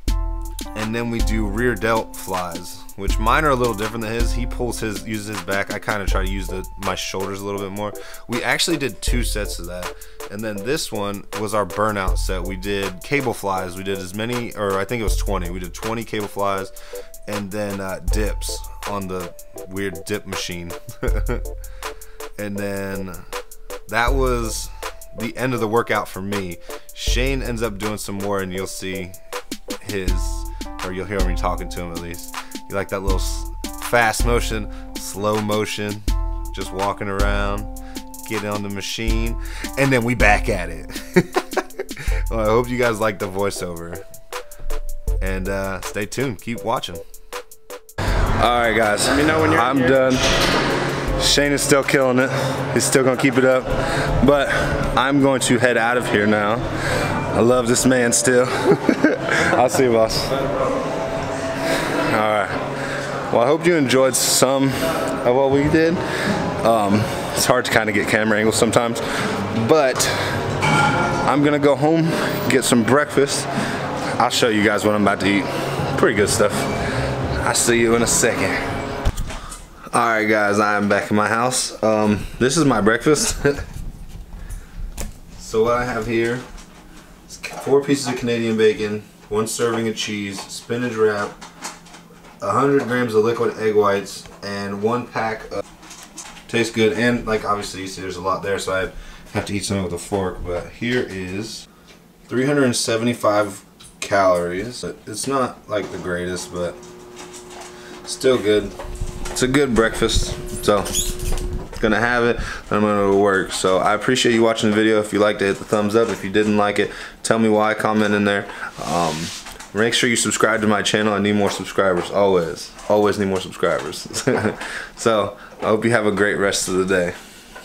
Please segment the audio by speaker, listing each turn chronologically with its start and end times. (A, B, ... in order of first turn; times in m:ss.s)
0:00.7-0:16.7 A
0:17.3-0:21.5 A
0:22.4-0:23.2 A
0:23.9-0:29.2 A
0:29.8-0:37.7 A
0:38.2-0:44.0 A
0:45.2-0:47.0 A
0:48.3-0:50.4 A
0:51.2-1:00.4 A
1:01.8-1:10.5 A
1:11.2-1:13.5 A
1:14.2-1:18.6 A
1:19.9-1:23.6 A
1:25.4-1:26.4 A
1:27.3-1:31.4 A
1:32.4-1:35.6 A
1:36.5-1:41.7 A
1:42.3-1:46.8 A
1:48.0-1:48.8 A
1:49.3-1:51.1 A
1:51.7-2:07.2 A